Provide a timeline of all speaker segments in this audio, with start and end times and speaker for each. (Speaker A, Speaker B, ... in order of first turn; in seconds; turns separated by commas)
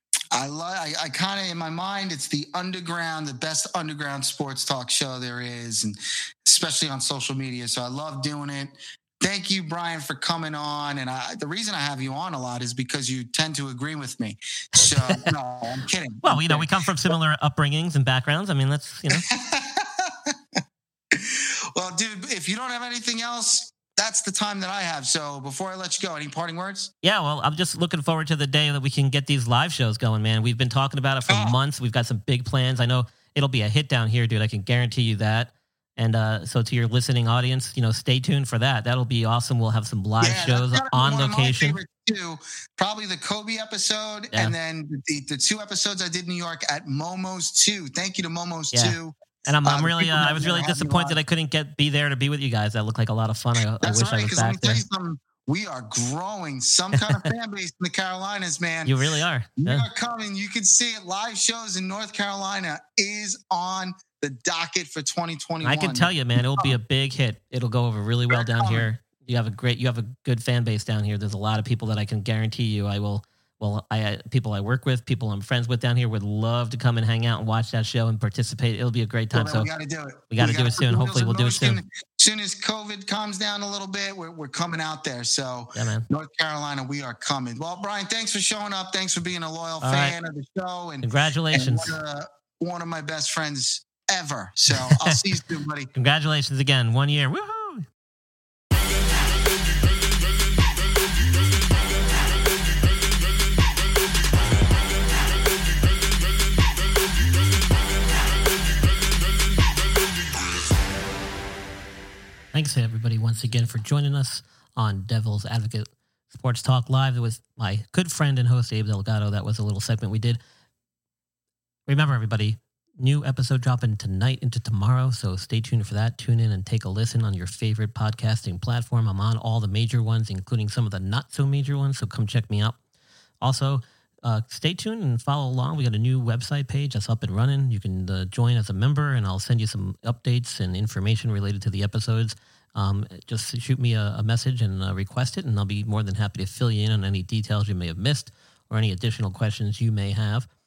Speaker A: 0.3-17.1, Speaker B: 14.8-15.2, Speaker B: 16.2-19.3, Speaker A: 19.1-20.3, Speaker A: 21.1-26.9, Speaker B: 27.0-41.8, Speaker A: 31.3-31.6, Speaker A: 40.2-51.2, Speaker B: 48.7-54.8, Speaker A: 53.8-59.0, Speaker B: 56.9-57.3, Speaker B: 58.8-59.9, Speaker A: 59.6-66.8, Speaker B: 65.6-79.7, Speaker A: 68.3-68.9, Speaker A: 79.3-95.9, Speaker B: 80.3-81.8, Speaker B: 85.7-86.1, Speaker B: 89.8-90.2, Speaker B: 91.0-92.0, Speaker B: 94.7-95.2, Speaker B: 95.9-97.8, Speaker B: 112.5-120.4, Speaker B: 121.9-132.8, Speaker B: 133.4-150.5